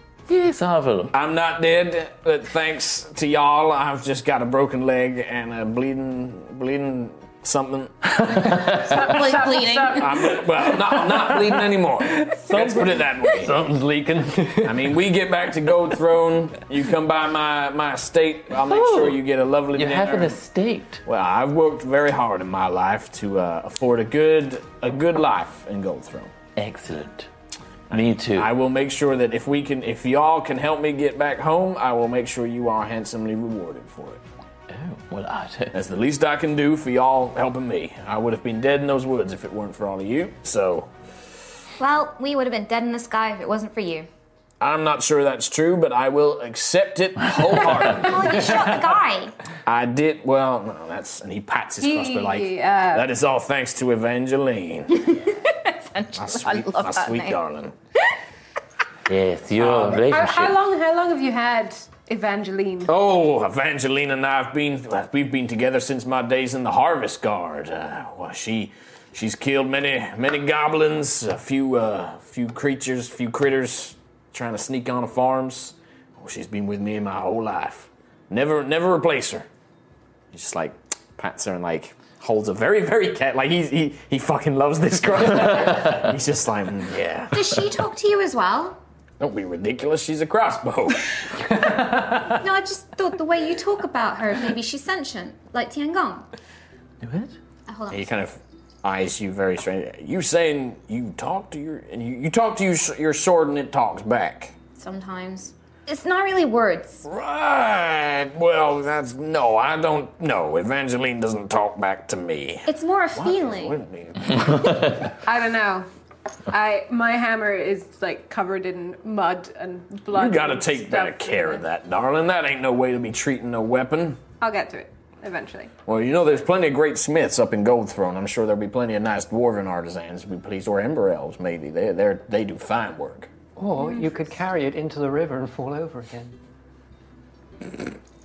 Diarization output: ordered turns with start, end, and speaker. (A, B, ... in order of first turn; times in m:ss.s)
0:00.3-0:01.1 A
0:01.1-0:09.3 B
0:08.4-0:08.9 A
0:08.8-0:10.1 C
0:08.8-0:10.3 D
0:09.8-0:13.5 B
0:10.6-0:15.0 E
0:14.6-0:20.4 B
0:18.6-0:19.2 A
0:19.7-0:21.0 A
0:21.0-0:26.3 B
0:26.6-0:27.3 A
0:27.9-0:28.5 A
0:27.9-0:34.2 B
0:34.7-0:35.8 A
0:35.7-0:40.9 B
0:41.8-0:44.1 D
0:44.6-0:48.6 B
0:47.5-0:49.3 D
0:49.6-0:55.2 B
0:51.8-0:53.1 C
0:55.0-0:57.4 D
0:56.2-0:57.7 B
0:59.1-1:00.6 A
0:59.8-1:02.9 C
1:02.9-1:19.5 B
1:20.3-1:27.6 B
1:27.3-1:28.8 D
1:29.2-1:31.6 B
1:31.6-1:32.2 E
1:32.2-1:36.3 D
1:37.0-1:37.4 A
1:37.7-1:38.2 D
1:37.9-1:44.5 B
1:44.8-1:47.0 D
1:47.0-1:54.8 B
1:52.6-1:53.8 D
1:55.2-1:55.9 C
1:56.5-2:01.6 C
2:00.1-2:04.2 B
2:04.4-2:05.7 C
2:05.8-2:13.3 B
2:13.6-2:16.4 E